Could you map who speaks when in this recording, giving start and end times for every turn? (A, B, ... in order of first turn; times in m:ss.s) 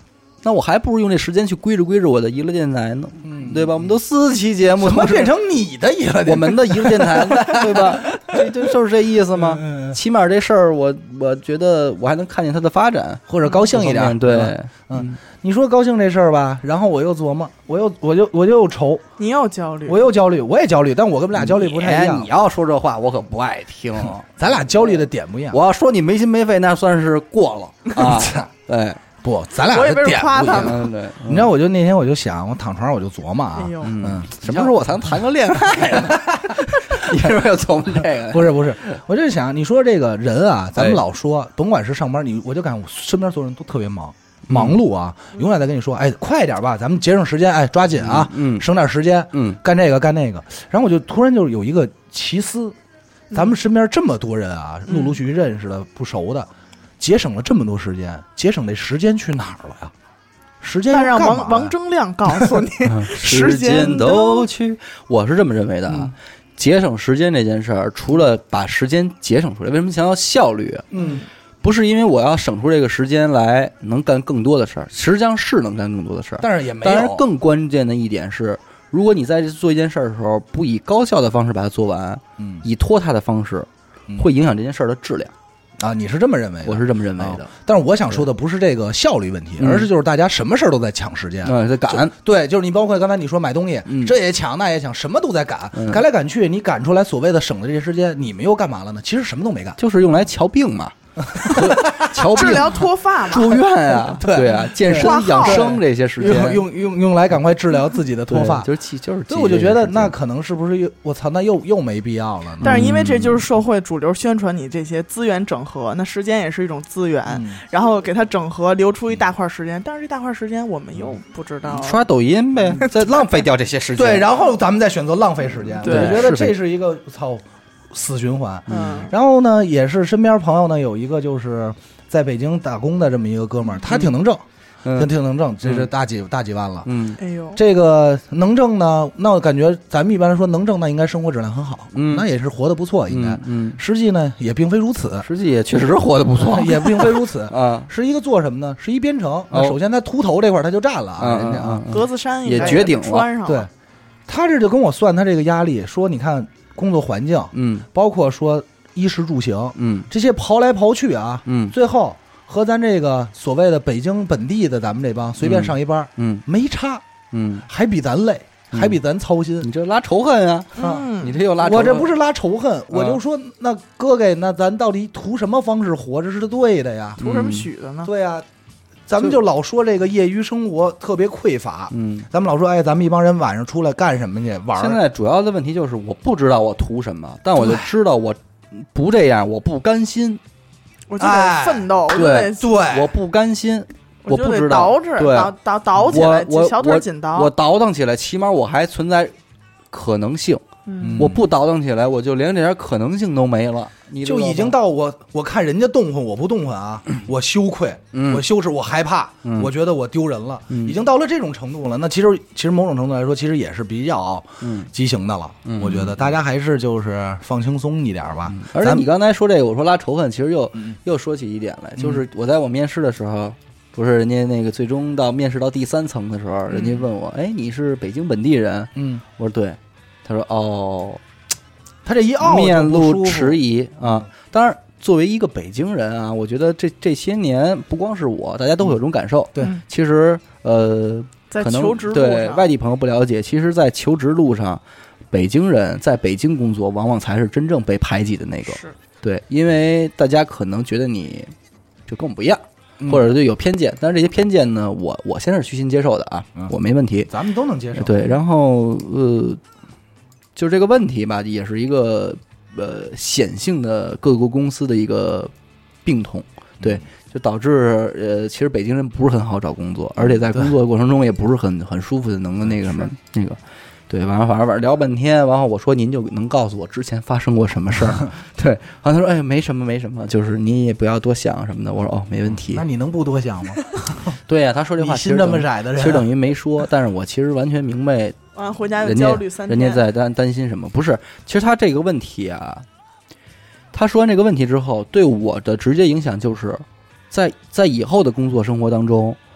0:00.4-0:05.3 A
0:03.2-0:03.9 B
0:04.8-0:08.6 B
0:06.2-0:15.2 A
0:09.3-0:10.0 B
0:13.3-0:19.0 B
0:19.2-0:20.0 C
0:19.8-0:22.3 B
0:21.4-0:24.9 A
0:24.2-0:25.6 B
0:25.5-0:29.0 A
0:27.9-0:28.5 B
0:29.2-0:37.2 B
0:29.6-0:30.8 C
0:30.6-0:31.5 A
0:33.6-0:34.0 C
0:33.8-0:39.0 A
0:38.0-0:52.8 B
0:44.5-0:44.8 A
0:48.0-0:48.6 A
0:49.3-0:49.6 A
0:53.3-0:59.9 B
0:54.9-0:55.2 C
1:00.6-1:01.7 B
1:00.9-1:04.5 C
1:02.8-1:10.8 A
1:10.9-1:11.2 B
1:11.6-1:25.3 A
1:16.4-1:17.2 B
1:22.4-1:22.6 B
1:25.8-1:39.8 B
1:26.6-1:27.5 A
1:29.6-1:29.9 A
1:31.4-1:32.1 A
1:33.8-1:34.1 A
1:35.7-1:36.0 A
1:39.8-1:46.6 A
1:41.2-1:42.7 B
1:41.6-1:43.6 C
1:44.0-1:48.7 B
1:44.9-1:45.8 C
1:48.3-1:50.1 A
1:49.3-1:52.9 B
1:52.6-1:53.4 A
1:52.6-2:02.0 C
1:57.3-1:57.6 B
2:01.7-2:04.3 A
2:02.8-2:03.3 C
2:04.0-2:16.9 B
2:05.8-2:06.6 A
2:05.8-2:06.3 C
2:08.7-2:09.1 C
2:08.7-2:09.1 A
2:16.8-2:17.2 A
2:17.2-2:17.6 C
2:17.5-2:25.3 B
2:21.9-2:22.2 A
2:23.1-2:23.8 A
2:25.2-2:27.9 A
2:26.4-2:31.9 B
2:31.2-2:33.2 A
2:31.9-2:33.7 C
2:32.6-2:32.9 B
2:34.3-2:47.0 B
2:37.5-2:37.8 A
2:39.8-2:40.1 A
2:41.4-2:41.7 A
2:45.4-2:46.4 A
2:47.3-2:47.6 A
2:47.7-2:49.7 B
2:48.7-2:49.0 A
2:49.6-2:52.1 A
2:50.8-2:51.4 C
2:50.8-2:57.2 B
2:52.9-2:53.2 A
2:57.2-2:57.7 A
2:57.2-2:58.1 C
2:58.0-2:58.4 B
2:59.1-3:05.0 B
3:01.9-3:02.3 A
3:04.7-3:10.4 A
3:07.6-3:07.9 B
3:11.1-3:12.8 C
3:11.2-3:13.1 B
3:12.1-3:15.5 A
3:14.2-3:17.5 C
3:16.0-3:19.3 A
3:19.9-3:20.6 A
3:20.8-3:21.3 C
3:21.0-3:21.4 B
3:21.2-3:24.8 A
3:24.2-3:39.0 B
3:28.1-3:28.4 A
3:29.4-3:29.7 A
3:30.7-3:30.9 A
3:34.6-3:34.9 A
3:35.6-3:36.1 A
3:38.5-3:51.2 A
3:49.0-3:49.2 B
3:52.0-3:53.6 B
3:52.4-4:11.5 A
4:01.5-4:02.7 C
4:08.6-4:08.9 C
4:12.1-4:17.3 A
4:13.0-4:13.2 B
4:17.3-4:18.4 B
4:17.9-4:19.6 A
4:20.6-4:25.5 A
4:26.0-4:33.6 A
4:34.1-4:42.8 A
4:42.6-4:44.4 B
4:44.4-4:48.4 A
4:45.0-4:46.3 B
4:48.5-4:50.0 C
4:49.0-4:52.8 A
4:53.9-4:59.4 A